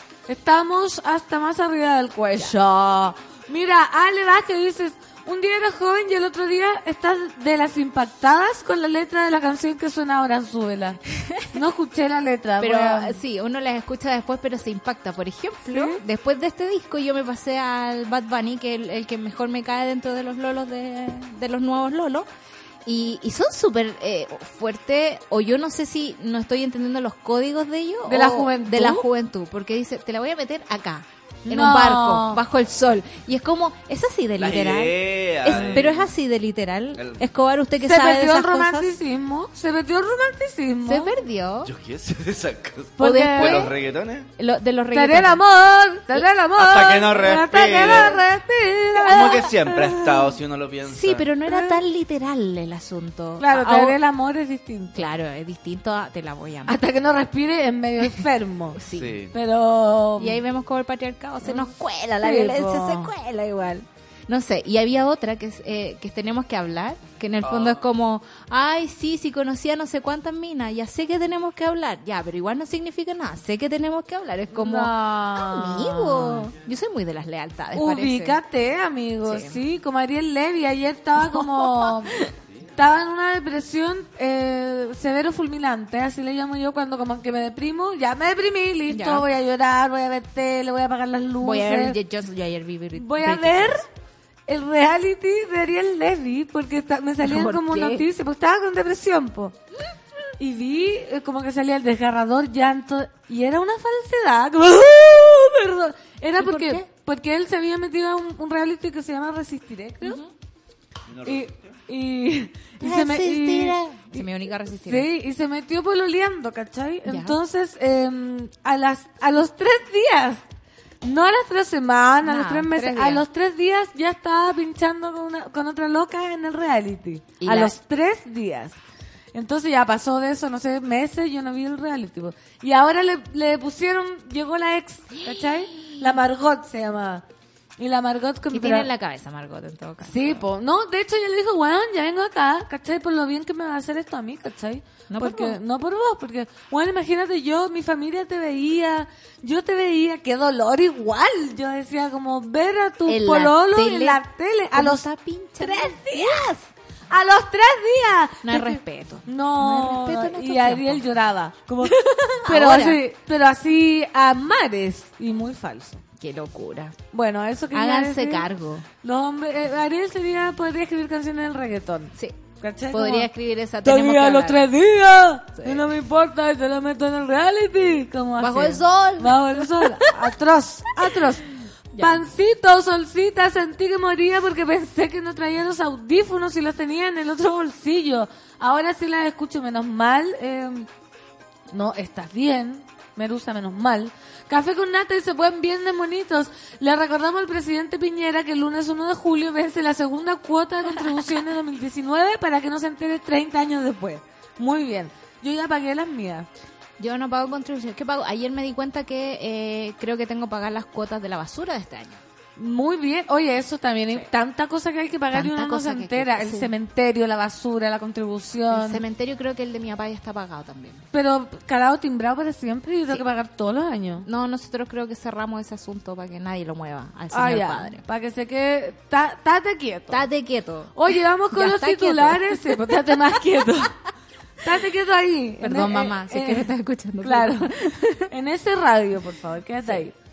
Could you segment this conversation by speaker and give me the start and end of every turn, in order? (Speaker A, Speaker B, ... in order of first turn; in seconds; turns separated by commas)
Speaker A: 0.3-11.0, Speaker B: 11.1-11.5, Speaker A: 11.5-13.2, Speaker B: 12.6-22.3, Speaker A: 15.7-16.0, Speaker B: 22.9-38.9, Speaker A: 28.1-29.1, Speaker A: 31.5-32.4, Speaker C: 34.4-36.1, Speaker C: 37.0-37.2, Speaker A: 37.8-41.1, Speaker B: 40.8-41.7, Speaker C: 41.6-44.3, Speaker A: 43.0-43.7, Speaker B: 43.0-43.8, Speaker B: 44.4-45.4, Speaker A: 44.9-50.0, Speaker C: 46.6-48.2, Speaker B: 49.1-49.4, Speaker C: 49.1-51.3, Speaker B: 50.9-54.0, Speaker A: 51.5-51.8, Speaker A: 53.4-55.0, Speaker B: 54.9-56.8, Speaker A: 56.7-58.8, Speaker B: 58.7-59.2, Speaker C: 58.9-59.3, Speaker A: 59.3-60.4, Speaker B: 60.2-78.4, Speaker A: 61.4-63.1, Speaker C: 67.4-67.8, Speaker A: 74.5-76.5, Speaker A: 77.7-82.2, Speaker B: 79.2-79.6, Speaker B: 81.2-82.3, Speaker A: 82.8-92.0, Speaker B: 88.9-89.3, Speaker B: 91.4-93.8, Speaker A: 93.0-93.9, Speaker A: 94.5-99.5, Speaker B: 97.2-98.1, Speaker A: 100.4-110.2, Speaker B: 106.4-106.9, Speaker B: 110.0-110.3, Speaker C: 111.1-111.5, Speaker A: 111.2-120.4, Speaker B: 112.8-115.1, Speaker B: 117.0-117.4, Speaker A: 121.0-128.8, Speaker B: 122.2-123.2, Speaker B: 127.4-127.8, Speaker A: 129.3-137.2, Speaker B: 135.2-136.2, Speaker A: 137.8-138.9, Speaker B: 138.5-140.4, Speaker A: 140.0-155.1, Speaker B: 145.1-145.6, Speaker B: 153.1-156.7, Speaker A: 155.6-156.5, Speaker A: 157.1-166.0, Speaker B: 158.4-161.1, Speaker B: 161.8-163.0, Speaker B: 166.2-167.0, Speaker A: 167.1-168.4, Speaker B: 167.7-168.9, Speaker A: 169.0-173.3, Speaker B: 172.1-174.7, Speaker A: 173.8-190.9, Speaker B: 175.6-175.9, Speaker B: 178.4-180.2, Speaker B: 181.9-182.2, Speaker A: 191.7-206.5, Speaker B: 207.0-212.2, Speaker A: 212.6-219.0, Speaker B: 215.3-216.7, Speaker B: 218.7-221.0, Speaker A: 221.1-224.3, Speaker B: 224.2-228.0, Speaker A: 227.3-230.2, Speaker B: 230.1-232.9, Speaker A: 230.9-233.9, Speaker A: 234.6-237.7, Speaker B: 235.6-238.3, Speaker A: 238.3-240.1